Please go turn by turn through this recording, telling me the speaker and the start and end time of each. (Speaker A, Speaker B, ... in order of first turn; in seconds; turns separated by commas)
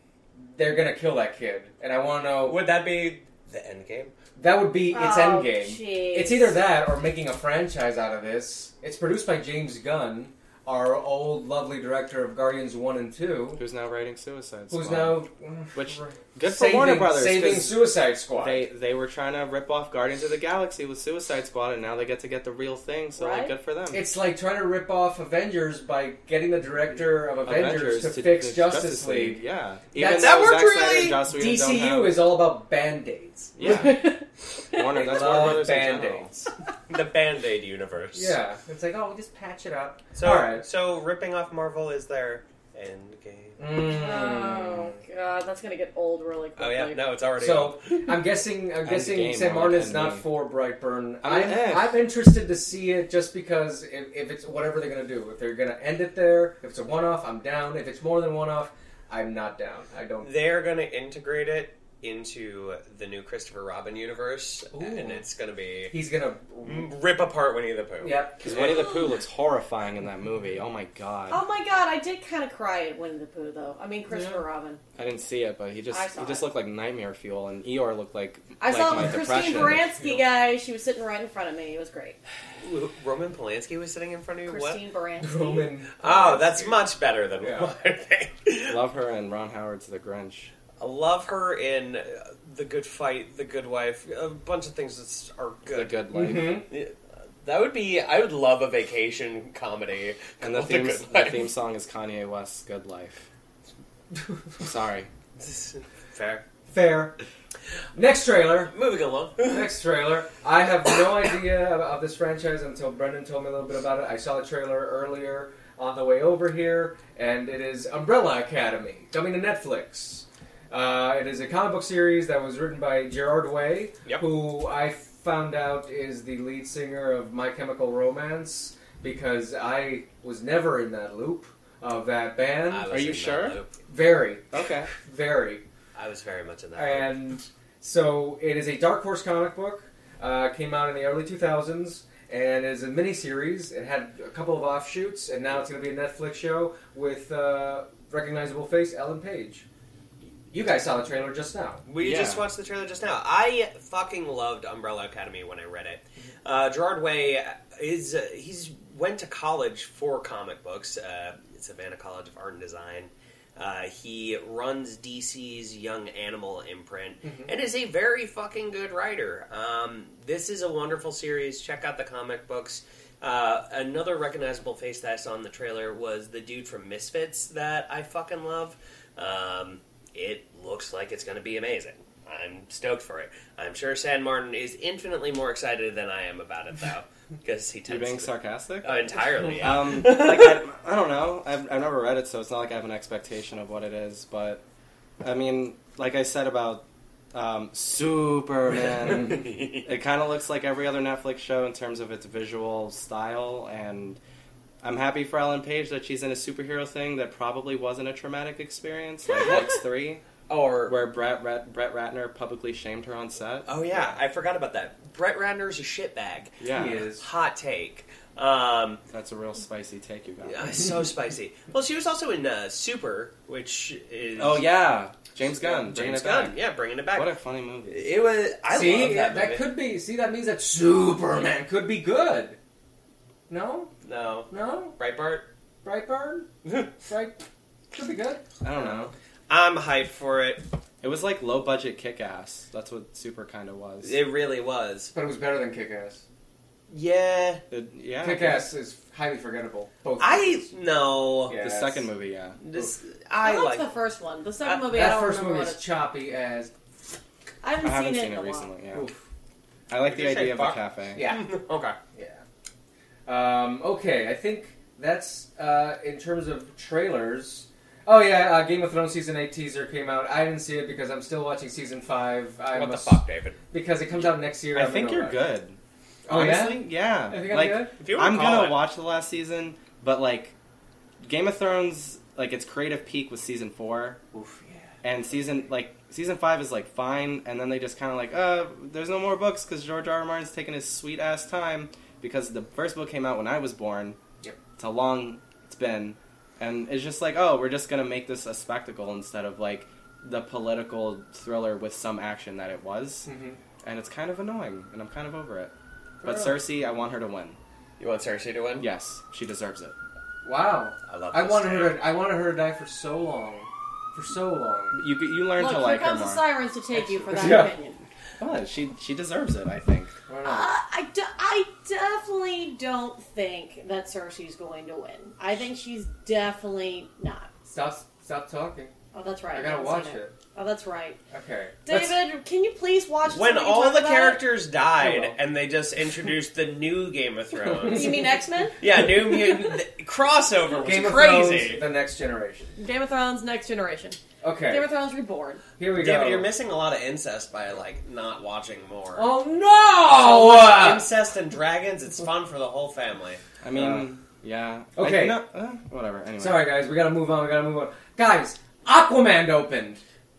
Speaker A: 0.4-2.6, Speaker B: 2.5-4.1, Speaker A: 4.4-13.6, Speaker C: 4.9-6.6, Speaker D: 13.6-15.2, Speaker A: 14.7-18.7, Speaker D: 15.7-24.0, Speaker C: 23.2-23.5, Speaker A: 23.9-29.4, Speaker D: 27.4-32.3, Speaker A: 29.9-30.5, Speaker B: 30.1-31.2, Speaker A: 31.2-33.9, Speaker D: 33.6-34.1, Speaker C: 33.6-35.1, Speaker D: 34.7-36.3, Speaker A: 35.0-36.5, Speaker B: 36.9-38.4, Speaker A: 38.1-40.6, Speaker B: 40.1-43.6, Speaker A: 43.6-45.0, Speaker C: 43.8-47.0, Speaker B: 46.6-48.1, Speaker A: 47.4-60.3, Speaker D: 48.8-50.3, Speaker D: 51.2-52.0, Speaker B: 60.2-65.9, Speaker A: 64.7-65.2, Speaker A: 65.9-66.9, Speaker B: 66.6-68.8, Speaker A: 68.0-68.6, Speaker D: 68.4-71.4, Speaker C: 71.3-74.8, Speaker A: 74.1-74.4, Speaker D: 75.0-79.9, Speaker C: 75.9-76.5, Speaker C: 78.6-82.2, Speaker B: 82.6-84.8, Speaker C: 84.5-85.7, Speaker A: 85.2-86.8, Speaker B: 86.0-88.8, Speaker A: 87.4-87.7, Speaker D: 88.7-90.5, Speaker B: 90.8-96.0, Speaker D: 95.7-96.6, Speaker A: 96.1-96.7, Speaker B: 96.7-101.5, Speaker D: 100.4-103.2, Speaker D: 104.6-105.1, Speaker B: 105.4-106.4, Speaker A: 106.7-107.2, Speaker A: 107.9-108.7, Speaker B: 108.7-109.8, Speaker A: 109.4-132.9, Speaker B: 132.7-133.8, Speaker D: 132.9-133.6, Speaker A: 133.9-135.6, Speaker D: 134.5-134.9, Speaker B: 135.9-137.2, Speaker A: 136.8-149.7, Speaker A: 150.5-151.8, Speaker B: 151.9-190.6, Speaker D: 152.0-152.4, Speaker A: 167.2-167.5, Speaker D: 187.9-194.6, Speaker D: 195.2-204.2, Speaker D: 204.8-210.2, Speaker B: 210.5-211.0, Speaker D: 210.9-214.2, Speaker B: 213.7-219.0, Speaker D: 216.6-217.1, Speaker A: 216.7-217.2, Speaker D: 219.1-220.8, Speaker B: 220.4-224.8, Speaker D: 224.4-226.6, Speaker B: 225.4-227.3, Speaker D: 227.1-228.1, Speaker B: 227.9-229.7, Speaker A: 228.7-232.6, Speaker A: 233.5-233.9, Speaker B: 234.0-235.5, Speaker A: 234.5-234.9, Speaker A: 235.8-236.5, Speaker A: 237.0-237.4, Speaker A: 237.9-239.1, Speaker D: 238.6-239.1, Speaker B: 239.5-240.6, Speaker D: 241.0-244.2, Speaker B: 244.0-245.1, Speaker A: 245.1-246.2, Speaker B: 246.9-247.6, Speaker D: 247.7-248.7, Speaker A: 248.2-250.7, Speaker B: 250.2-251.6, Speaker A: 251.5-252.1, Speaker D: 251.5-252.6, Speaker B: 252.6-253.9, Speaker C: 253.4-255.8, Speaker A: 254.9-256.7, Speaker C: 257.6-258.7, Speaker D: 257.8-259.1, Speaker D: 259.9-261.3, Speaker B: 260.1-262.0, Speaker A: 261.1-261.5, Speaker A: 262.1-262.4, Speaker A: 263.3-275.4, Speaker B: 272.7-273.6, Speaker D: 274.7-275.8, Speaker A: 276.3-277.9, Speaker D: 276.3-280.5, Speaker B: 278.0-278.8, Speaker D: 281.2-284.2, Speaker D: 285.0-294.2, Speaker D: 294.8-303.3, Speaker A: 303.3-303.6, Speaker D: 303.8-307.6, Speaker A: 306.2-306.6, Speaker B: 308.0-308.9, Speaker D: 308.8-309.9, Speaker A: 310.4-315.0, Speaker B: 311.1-312.1, Speaker D: 314.9-316.4, Speaker C: 315.6-318.0, Speaker A: 317.3-317.7, Speaker D: 317.4-317.6, Speaker D: 318.4-320.2, Speaker A: 320.3-320.7, Speaker C: 320.4-327.5, Speaker A: 327.7-328.9, Speaker C: 329.1-331.2, Speaker A: 329.5-330.3, Speaker A: 331.3-332.2, Speaker C: 331.9-334.4, Speaker B: 333.3-338.2, Speaker A: 335.0-335.4, Speaker A: 337.7-338.3, Speaker C: 337.9-338.8, Speaker B: 338.8-341.8, Speaker A: 340.8-342.8, Speaker C: 342.8-345.6, Speaker A: 344.4-344.9, Speaker A: 345.8-346.5, Speaker B: 345.9-349.3, Speaker A: 349.1-351.1, Speaker B: 350.1-353.4, Speaker D: 353.6-356.7, Speaker A: 353.7-354.1, Speaker A: 355.0-355.4, Speaker A: 356.4-360.0